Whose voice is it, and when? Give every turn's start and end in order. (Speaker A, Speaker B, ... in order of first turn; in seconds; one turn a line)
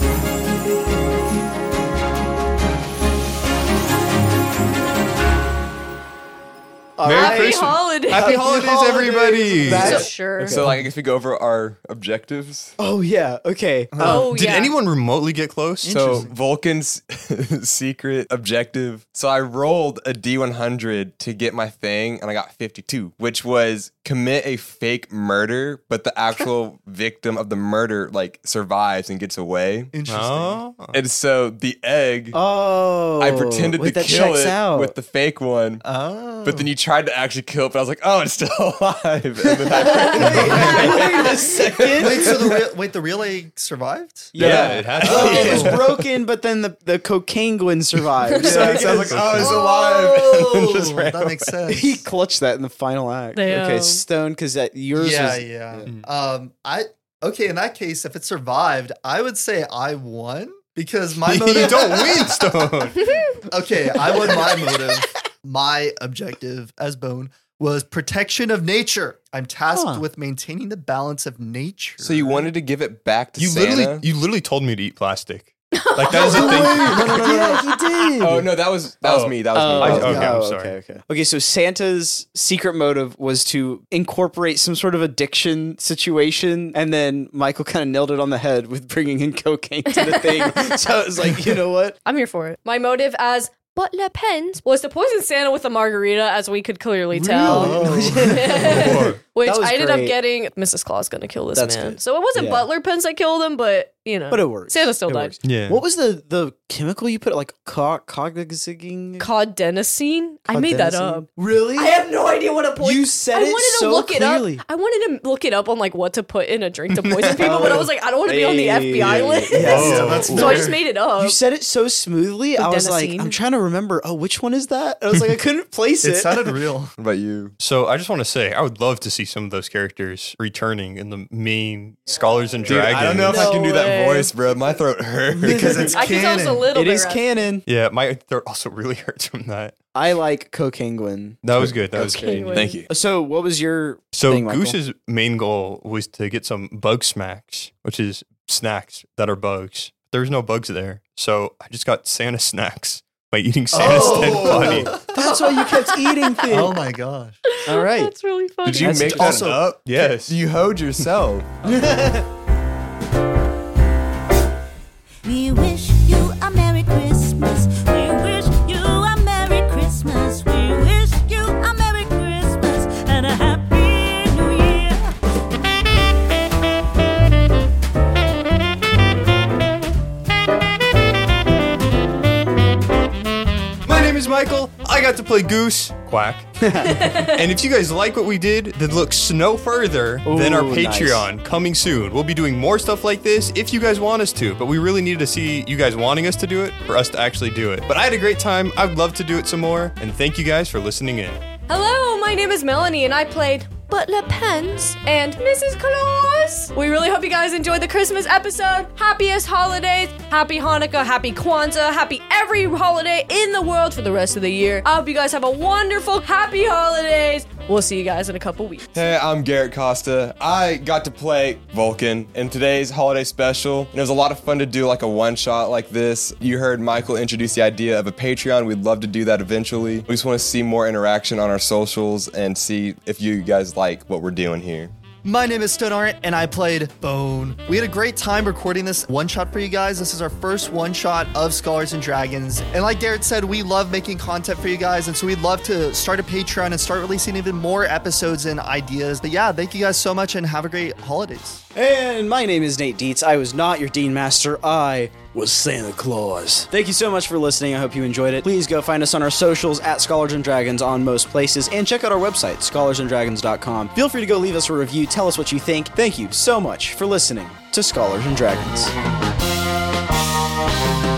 Speaker A: 7.0-7.6
Speaker B: 7.0-10.1
Speaker C: 7.1-10.6
Speaker A: 8.2-8.6
Speaker A: 9.6-10.6
Speaker D: 10.3-12.7
Speaker A: 12.8-14.5
Speaker E: 13.9-14.3
Speaker C: 14.0-14.7
Speaker B: 14.1-16.2
Speaker E: 15.8-16.3
Speaker D: 15.9-29.9
Speaker E: 29.9-30.6
Speaker B: 30.1-31.0
Speaker D: 30.9-32.4
Speaker A: 32.3-34.9
Speaker D: 33.2-35.9
Speaker E: 35.8-36.7
Speaker D: 36.4-42.4
Speaker A: 39.5-42.5
Speaker B: 40.3-40.9
Speaker C: 40.8-41.2
Speaker E: 41.9-44.4
Speaker A: 44.3-49.5
Speaker D: 44.4-46.1
Speaker B: 44.4-45.8
Speaker E: 45.0-45.8
Speaker C: 48.3-48.6
Speaker D: 48.4-51.1
Speaker B: 48.6-49.6
Speaker E: 49.3-52.1
Speaker B: 51.1-51.5
Speaker A: 51.7-55.9
Speaker C: 53.3-54.0
Speaker E: 54.9-62.7
Speaker B: 61.2-63.1
Speaker C: 62.9-63.4
Speaker E: 63.4-72.5
Speaker A: 69.7-70.1
Speaker D: 72.0-74.1
Speaker B: 73.4-77.1
Speaker C: 75.7-76.3
Speaker E: 76.1-76.7
Speaker A: 76.2-78.5
Speaker F: 76.2-78.2
Speaker D: 76.4-77.6
Speaker D: 78.2-80.3
Speaker A: 79.1-91.9
Speaker B: 79.1-80.8
Speaker E: 79.8-80.4
Speaker C: 89.9-90.9
Speaker C: 92.0-105.4
Speaker A: 97.1-100.2
Speaker E: 97.4-98.7
Speaker B: 98.7-99.2
Speaker A: 101.5-102.7
Speaker A: 104.3-109.3
Speaker B: 105.4-105.8
Speaker C: 109.2-121.4
Speaker A: 110.5-111.5
Speaker F: 111.4-111.9
Speaker A: 112.8-114.6
Speaker B: 116.9-117.9
Speaker A: 117.4-126.6
Speaker B: 119.5-120.7
Speaker E: 119.6-120.8
Speaker C: 122.6-123.4
Speaker E: 126.0-126.9
Speaker D: 127.0-127.5
Speaker B: 127.6-133.5
Speaker D: 132.6-135.9
Speaker C: 133.2-134.3
Speaker A: 135.3-136.0
Speaker E: 135.4-136.7
Speaker C: 135.9-137.2
Speaker A: 136.7-137.7
Speaker B: 137.7-139.7
Speaker A: 139.9-144.8
Speaker B: 141.4-142.8
Speaker C: 142.0-142.8
Speaker D: 142.6-142.9
Speaker B: 144.1-155.1
Speaker E: 153.7-155.1
Speaker A: 153.8-156.8
Speaker C: 155.2-156.2
Speaker E: 156.4-157.4
Speaker C: 157.5-159.2
Speaker A: 157.7-158.1
Speaker D: 158.6-161.5
Speaker A: 158.8-159.6
Speaker E: 159.1-159.7
Speaker B: 159.8-160.4
Speaker A: 161.7-162.1
Speaker G: 165.2-175.1
Speaker B: 183.8-201.4
Speaker A: 186.6-187.1
Speaker C: 186.9-187.4
Speaker A: 190.2-191.3
Speaker C: 201.7-219.1
Speaker D: 218.9-234.9
Speaker E: 235.2-251.6
Speaker A: 251.7-255.3
Speaker F: 255.3-256.7
Speaker A: 256.7-268.9